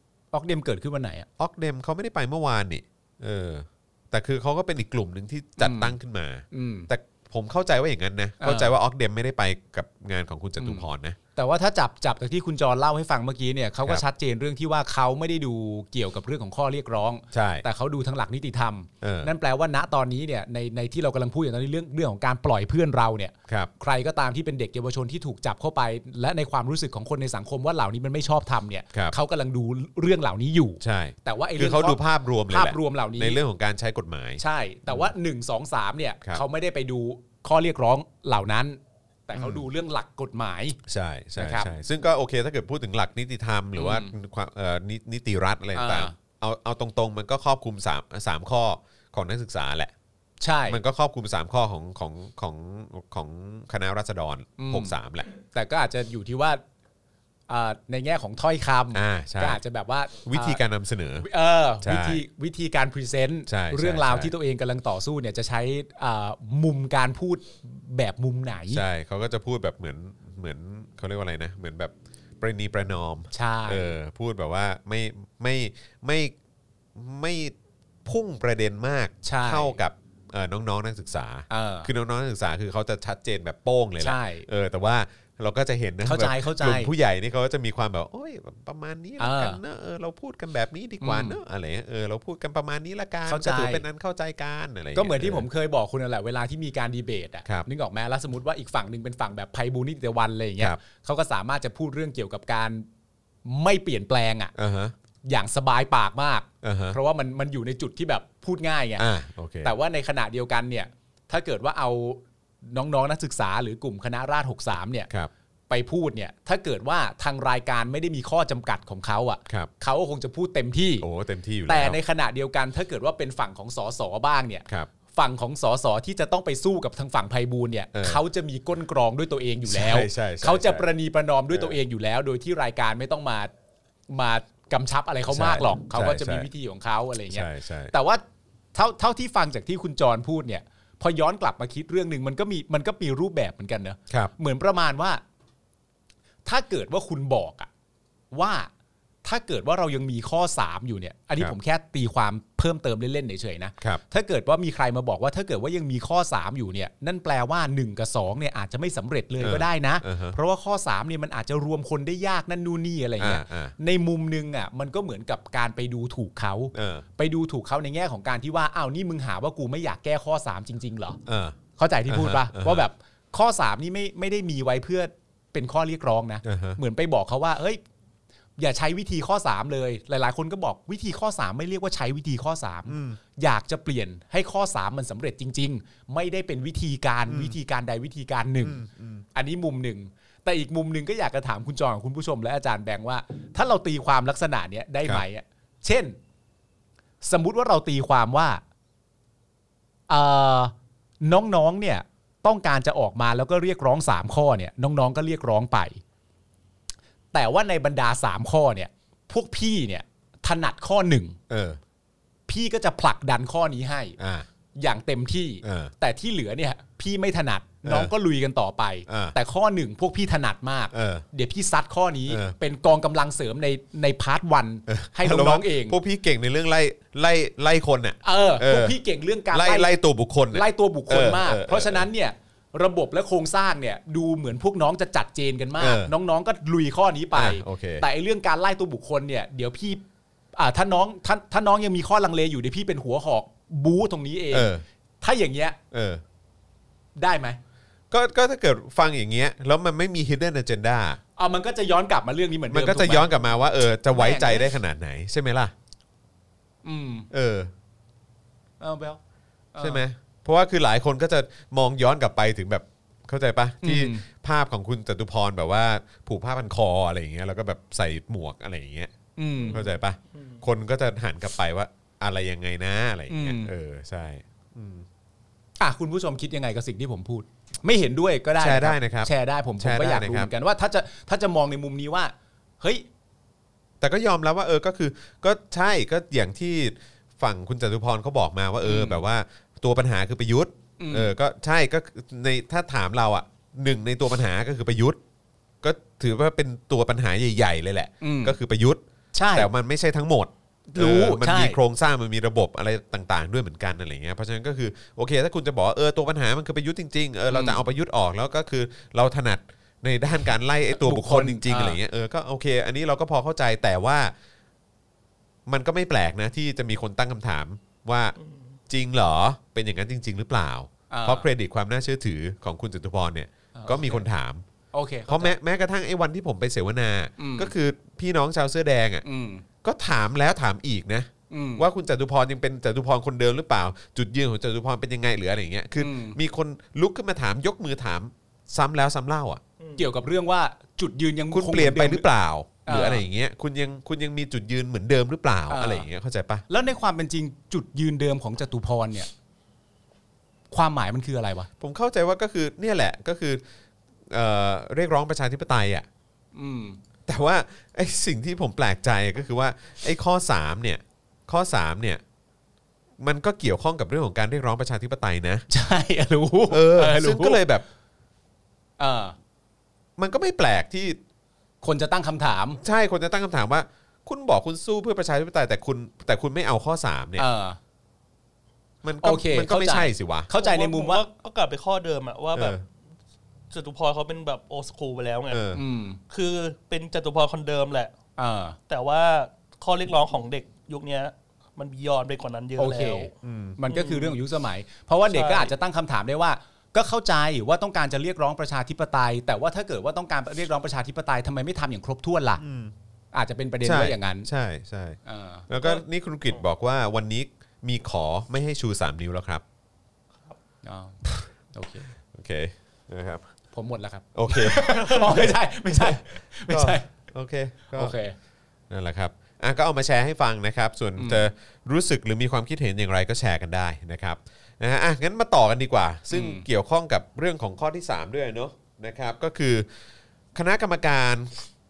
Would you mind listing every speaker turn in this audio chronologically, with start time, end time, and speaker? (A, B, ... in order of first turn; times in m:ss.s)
0:00.3-0:01.3 A
0:01.4-0:11.2 B
0:05.6-0:05.9 A
0:06.5-0:06.9 A
0:08.4-0:08.7 A
0:10.6-0:33.4 A
0:17.3-0:17.6 B
0:19.0-0:19.3 B
0:30.8-0:35.1 B
0:34.4-0:40.8 A
0:39.3-0:39.6 B
0:40.9-0:49.9 B
0:41.4-0:41.7 A
0:43.7-0:44.1 A
0:45.7-0:46.1 A
0:50.4-0:50.8 A
0:50.7-0:55.3 B
0:54.6-0:56.6 A
0:57.5-1:00.6 A
0:58.9-0:59.6 B
1:00.2-1:01.3 B
1:01.2-1:08.8 A
1:01.8-1:02.2 B
1:03.5-1:04.3 B
1:08.7-1:16.3 B
1:13.3-1:13.9 A
1:16.9-1:17.5 B
1:18.0-1:35.5 B
1:19.2-1:19.8 A
1:21.5-1:21.9 A
1:24.0-1:24.5 A
1:26.0-1:26.9 A
1:29.2-1:29.6 A
1:31.0-1:31.4 A
1:33.2-1:33.8 A
1:34.9-1:42.8 A
1:43.4-1:44.5 A
1:44.6-1:44.9 B
1:45.2-1:49.0 A
1:46.6-1:47.0 B
1:49.0-1:49.7 B
1:49.6-1:55.1 A
1:55.7-2:01.0 A
2:01.0-2:02.0 B
2:01.7-2:13.5 A
2:07.9-2:08.2 B
2:09.7-2:10.9 B
2:11.5-2:11.8 B
2:14.1-2:18.2 A
2:15.3-2:16.5 B
2:17.3-2:17.9 B
2:18.7-2:25.2 A
2:26.4-2:27.7 A
2:28.3-2:28.7 A
2:29.2-2:51.2 A
2:39.4-2:40.4 B
2:43.2-2:43.7 B
2:46.7-2:47.0 B
2:51.2-2:52.8 B
2:51.8-2:57.8 A
2:56.4-2:56.8 B
2:58.6-3:16.2 A
3:02.9-3:03.2 B
3:07.3-3:07.6 B
3:08.6-3:09.2 B
3:17.2-3:18.6 A
3:20.1-3:26.0 A
3:27.3-3:31.4 A
3:31.5-3:31.8 B
3:32.5-3:34.2 A
3:34.2-3:34.5 B
3:34.8-3:46.0 A
3:35.6-3:35.9 B
3:37.8-3:38.1 B
3:39.1-3:39.4 B
3:40.9-3:41.2 B
3:42.3-3:42.5 B
3:44.9-3:49.0 B
3:48.2-3:49.9 A
3:49.5-3:52.1 B
3:50.5-4:00.0 A
3:55.8-3:56.1 B
3:57.3-3:58.0 B
4:00.6-4:05.8 A
4:04.5-4:04.8 B
4:05.9-4:06.2 B
4:07.2-4:07.6 A
4:08.1-4:11.2 B
4:11.4-4:13.4 A
4:12.7-4:15.7 B
4:14.1-4:14.7 A
4:16.8-4:17.3 A
4:17.3-4:17.7 B
4:18.8-4:19.2 A
4:19.7-4:20.0 A
4:19.8-4:29.1 B
4:23.8-4:24.2 A
4:29.4-4:29.8 A
4:29.7-4:30.6 C
4:29.7-4:35.0 B
4:33.3-4:33.7 A
4:35.8-4:43.0 A
4:38.6-4:40.5 B
4:44.0-4:55.2 B
4:48.8-4:49.2 A
4:51.0-4:51.3 A
4:55.8-4:59.0 B
4:58.2-4:58.6 A
4:59.3-4:59.7 A
4:59.5-5:14.3 B
5:00.9-5:01.8 A
5:07.5-5:07.8 A
5:10.9-5:12.0 A
5:15.6-5:18.4 B
5:18.4-5:18.6 C
5:18.9-5:24.6 B
5:21.1-5:21.5 A
5:23.7-5:24.2 A
5:24.9-5:25.6 A
5:25.3-5:29.2 B
5:27.4-5:27.7 A
5:29.2-5:29.6 A
5:29.8-5:39.6 B
5:31.5-5:31.8 A
5:36.0-5:36.4 A
5:39.8-5:40.0 C
5:40.0-5:42.2 A
5:41.5-5:46.6 B
5:42.8-5:43.2 A
5:45.7-5:46.1 A
5:46.7-5:49.3 A
5:50.7-5:51.7 A
5:51.8-5:53.6 B
5:54.3-5:56.0 B
5:56.5-5:57.0 A
5:57.3-6:02.2 B
6:03.2-6:05.6 B
6:05.7-6:07.6 A
6:06.7-6:07.8 B
6:09.0-6:09.4 A
6:10.2-6:11.2 B
6:11.8-6:12.8 A
6:12.8-6:17.4 B
6:17.4-6:17.8 A
6:19.0-6:20.5 B
6:19.2-6:21.2 A
6:20.5-6:22.8 C
6:22.5-6:22.8 B
6:23.7-6:25.7 C
6:25.5-6:25.8 B
6:25.7-6:26.2 A
6:26.3-6:28.1 C
6:28.4-6:28.8 A
6:28.9-6:33.3 C
6:32.8-6:42.6 A
6:33.4-6:33.8 B
6:33.9-6:34.4 C
6:35.2-6:35.7 C
6:42.6-6:42.9 B
6:43.3-6:44.5 A
6:43.8-6:49.6 B
6:45.2-6:45.7 A
6:45.8-6:46.6 C
6:50.8-6:52.1 A
6:52.2-6:53.4 B
6:53.7-6:57.1 A
6:54.3-6:58.1 B
6:57.9-6:58.4 A
6:58.9-7:09.8 B
7:01.2-7:01.5 A
7:06.3-7:06.6 A
7:10.5-7:11.6 B